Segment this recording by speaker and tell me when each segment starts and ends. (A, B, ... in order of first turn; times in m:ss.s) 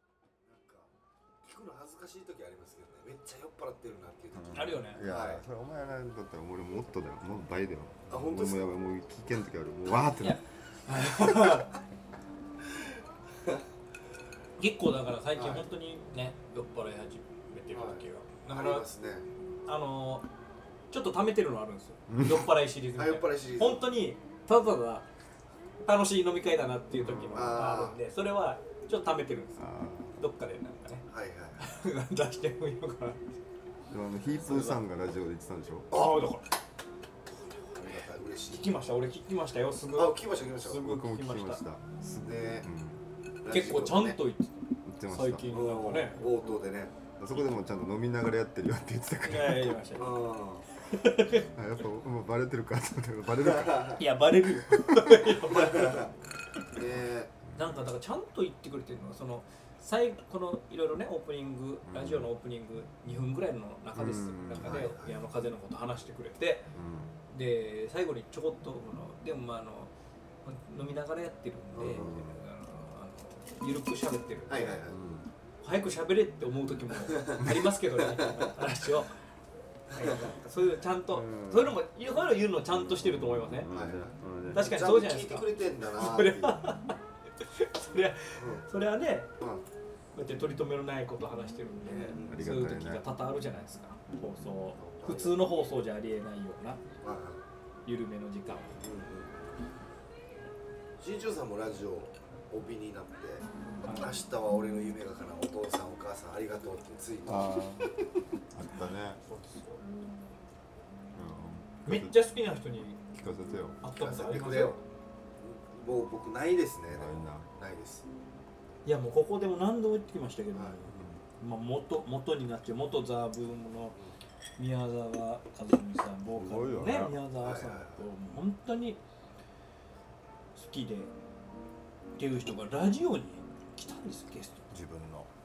0:00.4-0:00.9 A
0:01.4-0:05.4 A
0:04.3-0:10.4 B
0:04.5-0:05.0 C
0:08.1-0:08.8 A
0:10.2-0:11.7 C
0:14.6-0:18.8 C
0:15.4-0:15.7 A
0:17.7-0:19.3 A
0:19.7-0:20.3 C
0:20.9-0:25.1 C
0:22.1-0:22.4 B
0:23.0-0:23.9 A
0:25.8-0:29.6 C
0:27.0-0:27.5 B
0:27.3-0:28.0 A
0:29.6-0:30.2 B
0:30.2-0:31.1 C
0:31.1-0:31.6 A
0:31.6-0:33.2 C
0:33.9-0:35.9 B
0:34.4-0:34.8 A
0:35.9-0:36.5 C
0:37.4-0:38.8 A
0:38.5-0:41.6 C
0:40.0-0:40.8 A
0:40.8-0:41.9 B
0:42.0-0:42.7 A
0:42.6-0:43.0 B
0:43.4-0:44.2 A
0:43.5-0:46.4 C
0:44.9-0:45.5 B
0:45.5-0:47.0 A
0:47.2-0:49.8 B
0:49.2-0:50.1 C
0:50.0-0:50.7 A
0:50.9-0:51.5 C
0:51.5-0:53.9 B
0:53.4-0:54.0 A
0:54.0-0:56.1 C
0:54.8-0:55.1 B
0:55.4-0:56.1 A
0:56.8-0:57.3 A
0:57.6-1:06.7 C
1:01.8-1:02.3 B
1:04.0-1:04.8 B
1:04.6-1:05.1 A
1:06.7-1:07.1 B
1:07.3-1:09.9 C
1:10.4-1:14.8 C
1:11.8-1:12.1 A
1:11.8-1:12.3 B
1:14.5-1:15.0 A
1:14.9-1:15.3 B
1:15.6-1:19.2 C
1:17.1-1:17.4 A
1:19.9-1:20.3 A
1:19.9-1:23.7 C
1:21.1-1:21.8 B
1:22.7-1:24.7 B
1:23.7-1:26.6 A
1:24.5-1:29.3 C
1:28.4-1:28.6 A
1:29.4-1:29.6 A
1:30.2-1:36.8 C
1:31.9-1:32.4 A
1:32.2-1:33.1 B
1:34.1-1:34.4 B
1:34.8-1:35.5 A
1:37.0-1:37.4 A
1:37.8-1:38.8 C
1:38.8-1:39.4 A
1:41.0-1:48.0 A
1:43.8-1:44.1 C
1:47.3-1:47.9 B
1:48.5-1:49.2 B
1:49.3-1:49.8 C
1:51.1-1:52.2 B
1:51.9-1:53.0 C
1:53.1-1:53.8 B
1:53.8-1:54.8 C
1:53.9-1:54.8 A
1:55.4-1:58.1 A
1:56.9-1:57.5 B
1:58.8-2:04.0 C
2:00.9-2:01.2 B
2:04.6-2:09.0 C
2:06.4-2:07.2 B
2:07.4-2:08.1 A
2:10.6-2:11.1 C
2:12.2-2:14.7 C
2:14.7-2:15.3 B